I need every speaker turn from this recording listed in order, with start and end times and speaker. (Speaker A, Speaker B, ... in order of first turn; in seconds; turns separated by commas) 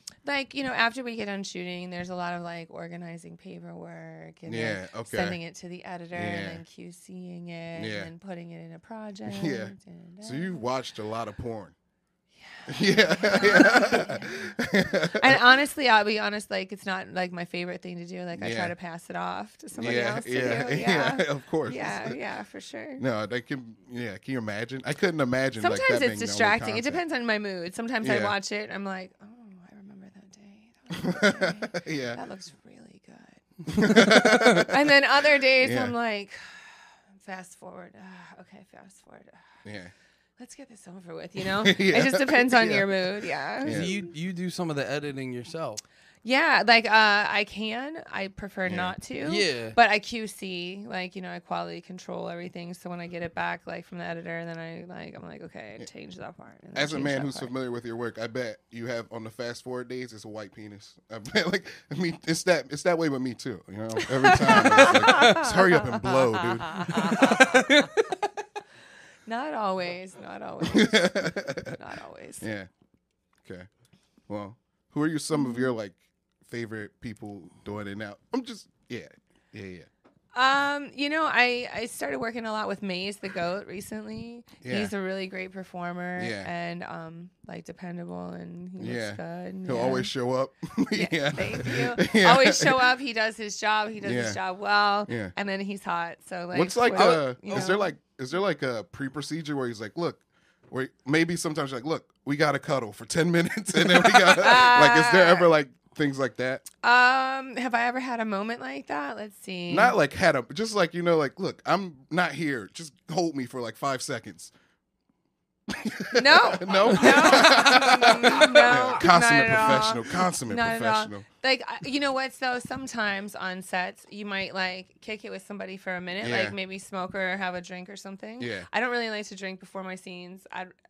Speaker A: 0.2-10.6, Speaker B: 4.5-5.4, Speaker B: 6.1-6.6, Speaker B: 7.8-8.1, Speaker B: 9.3-11.7, Speaker A: 12.4-23.0, Speaker B: 12.7-15.6, Speaker B: 18.4-18.7, Speaker B: 19.7-22.2, Speaker C: 20.3-20.8, Speaker B: 23.0-27.0, Speaker A: 25.6-34.0, Speaker B: 28.0-28.3, Speaker B: 31.0-32.2, Speaker B: 33.7-34.9, Speaker A: 34.7-39.4, Speaker B: 35.6-36.0, Speaker B: 39.6-39.9, Speaker A: 40.4-44.0, Speaker B: 41.4-43.1, Speaker B: 43.6-43.9, Speaker C: 43.6-45.8, Speaker A: 46.2-57.5, Speaker B: 48.7-49.0, Speaker C: 49.2-49.8, Speaker B: 56.8-67.4, Speaker A: 64.0-67.9, Speaker C: 64.7-65.3, Speaker C: 66.9-67.9, Speaker A: 69.3-72.5, Speaker B: 70.6-71.8, Speaker B: 72.4-72.7, Speaker B: 74.3-79.9, Speaker A: 75.3-75.7, Speaker A: 80.3-90.1, Speaker B: 84.6-84.9, Speaker B: 86.2-86.5, Speaker B: 88.8-92.9, Speaker A: 90.9-97.9, Speaker B: 94.0-94.4, Speaker B: 95.1-95.3, Speaker B: 96.5-106.7, Speaker C: 96.9-97.8, Speaker A: 103.8-105.5, Speaker A: 106.8-110.0, Speaker B: 109.7-114.5, Speaker B: 115.7-121.3, Speaker A: 116.1-130.7, Speaker C: 116.9-117.5, Speaker B: 126.2-126.5, Speaker B: 128.4-128.7